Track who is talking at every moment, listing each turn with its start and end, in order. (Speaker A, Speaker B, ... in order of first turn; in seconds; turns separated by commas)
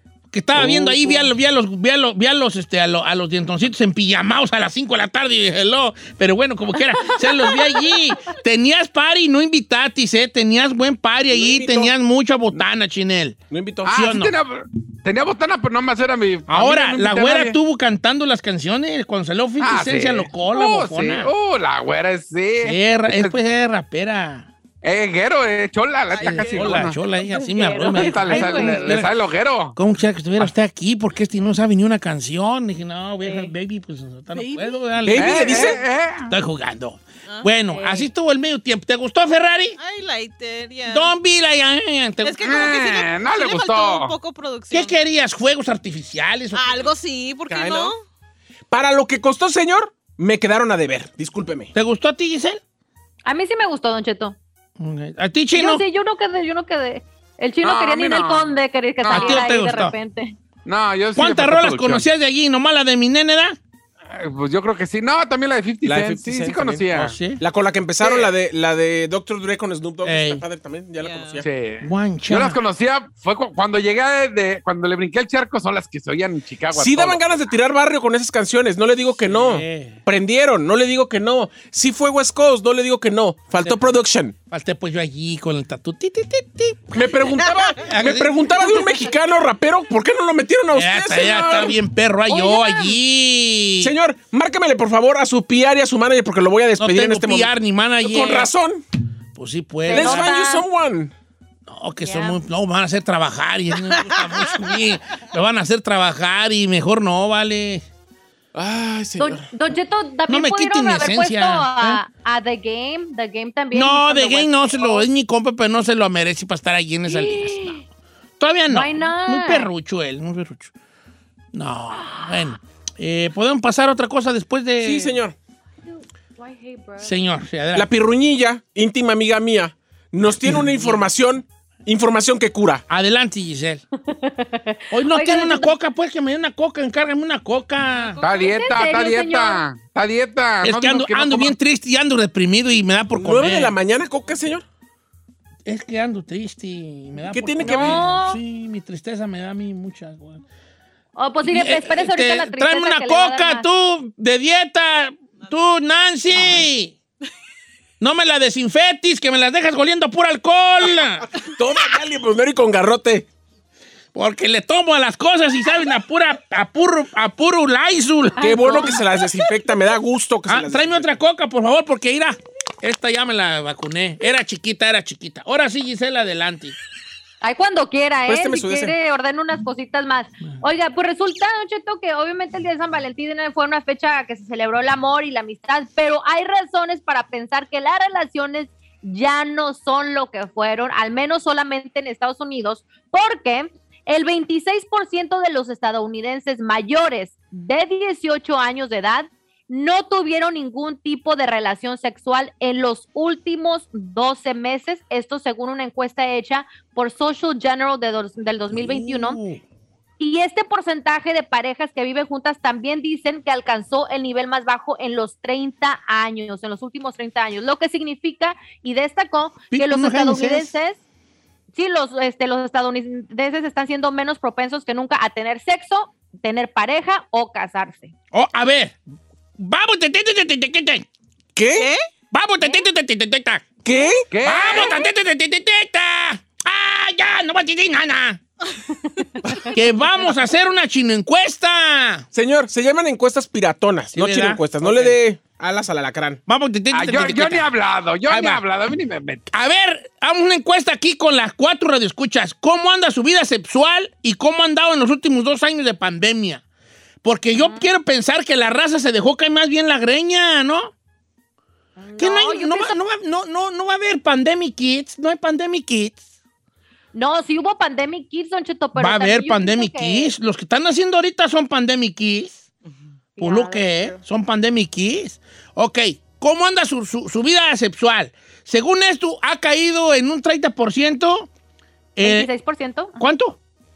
Speaker A: 0.3-13.3, Speaker B: 0.5-1.2, Speaker C: 6.9-8.0, Speaker D: 11.3-11.9, Speaker D: 13.5-13.9, Speaker B: 13.8-17.6, Speaker A: 13.9-14.3, Speaker A: 16.5-21.3, Speaker B: 19.6-23.4, Speaker A: 22.6-24.5, Speaker B: 24.8-27.0, Speaker D: 26.1-26.8, Speaker A: 26.2-29.1, Speaker C: 27.3-29.0, Speaker B: 27.8-29.8, Speaker A: 29.7-35.7, Speaker E: 34.3-34.8, Speaker D: 35.0-35.8, Speaker B: 35.1-36.3, Speaker A: 36.3-39.8, Speaker C: 37.7-38.1, Speaker E: 39.8-41.1, Speaker A: 40.9-42.5, Speaker E: 42.2-45.0, Speaker B: 42.4-44.1, Speaker A: 44.7-46.9, Speaker E: 46.5-48.0, Speaker D: 47.5-47.9, Speaker D: 48.7-51.7, Speaker A: 51.7-52.6, Speaker C: 53.2-54.4, Speaker A: 54.8-55.8, Speaker C: 55.5-60.4, Speaker B: 57.6-59.5, Speaker A: 59.1-60.0, Speaker B: 60.6-62.0, Speaker A: 61.1-63.6, Speaker B: 64.1-67.2, Speaker D: 65.8-66.8, Speaker A: 66.9-67.4, Speaker D: 67.4-71.5, Speaker B: 68.0-68.3, Speaker A: 70.0-70.4, Speaker E: 71.0-71.4, Speaker B: 71.4-77.3, Speaker A: 71.8-72.6, Speaker D: 76.7-84.3, Speaker A: 79.2-80.0, Speaker A: 84.5-87.0, Speaker D: 86.9-91.8, Speaker A: 87.8-88.5, Speaker A: 90.7-93.9, Speaker C: 92.3-93.0, Speaker D: 93.8-97.5, Speaker A: 96.8-98.5, Speaker D: 98.0-98.8, Speaker A: 99.3-100.3, Speaker C: 99.9-100.7, Speaker D: 99.9-101.1, Speaker A: 101.7-107.8, Speaker C: 102.0-102.4, Speaker D: 108.5-109.5, Speaker C: 109.2-115.1, Speaker A: 110.3-112.0, Speaker A: 113.7-117.8, Speaker C: 117.1-117.8, Speaker A: 118.4-120.7, Speaker C: 118.7-119.7, Speaker A: 121.5-125.2, Speaker D: 124.8-125.3, Speaker C: 125.9-127.1, Speaker A: 127.0-127.9, Speaker D: 127.7-132.8, Speaker A: 130.4-131.0, Speaker A: 132.9-133.8, Speaker C: 134.1-135.7, Speaker A: 134.9-138.2, Speaker E: 137.9-138.4, Speaker B: 138.2-141.6, Speaker C: 138.2-139.6, Speaker A: 140.6-143.7, Speaker D: 143.2-144.6, Speaker A: 145.7-150.4, Speaker D: 147.3-148.1, Speaker C: 147.6-148.4, Speaker C: 151.2-153.7, Speaker A: 151.5-156.9, Speaker A: 158.0-161.3, Speaker D: 161.4-163.3, Speaker A: 164.1-168.4, Speaker C: 168.4-169.0, Speaker D: 168.4-171.1, Speaker A: 170.5-176.8, Speaker C: 177.4-209.4, Speaker D: 178.3-178.9, Speaker A: 208.7-209.6, Speaker C: 210.2-221.0, Speaker A: 219.7-220.7, Speaker C: 221.7-228.1, Speaker A: 228.3-229.0, Speaker A: 229.6-231.1, Speaker D: 231.5-231.9, Speaker E: 231.7-232.0, Speaker A: 232.3-233.7, Speaker D: 233.8-234.3, Speaker B: 234.3-235.0, Speaker A: 234.4-238.4, Speaker A: 239.7-242.2, Speaker D: 242.3-246.4, Speaker A: 244.1-245.2, Speaker A: 246.5-247.7, Speaker B: 246.9-249.5, Speaker A: 248.3-248.6, Speaker A: 249.5-256.6, Speaker A: 257.2-260.9, Speaker C: 257.5-257.9, Speaker C: 262.0-263.0, Speaker A: 262.2-266.2, Speaker C: 267.1-270.3, Speaker A: 268.9-272.6, Speaker C: 273.4-274.2, Speaker A: 273.4-281.5, Speaker A: 282.1-282.5, Speaker C: 282.2-283.2, Speaker A: 283.2-283.6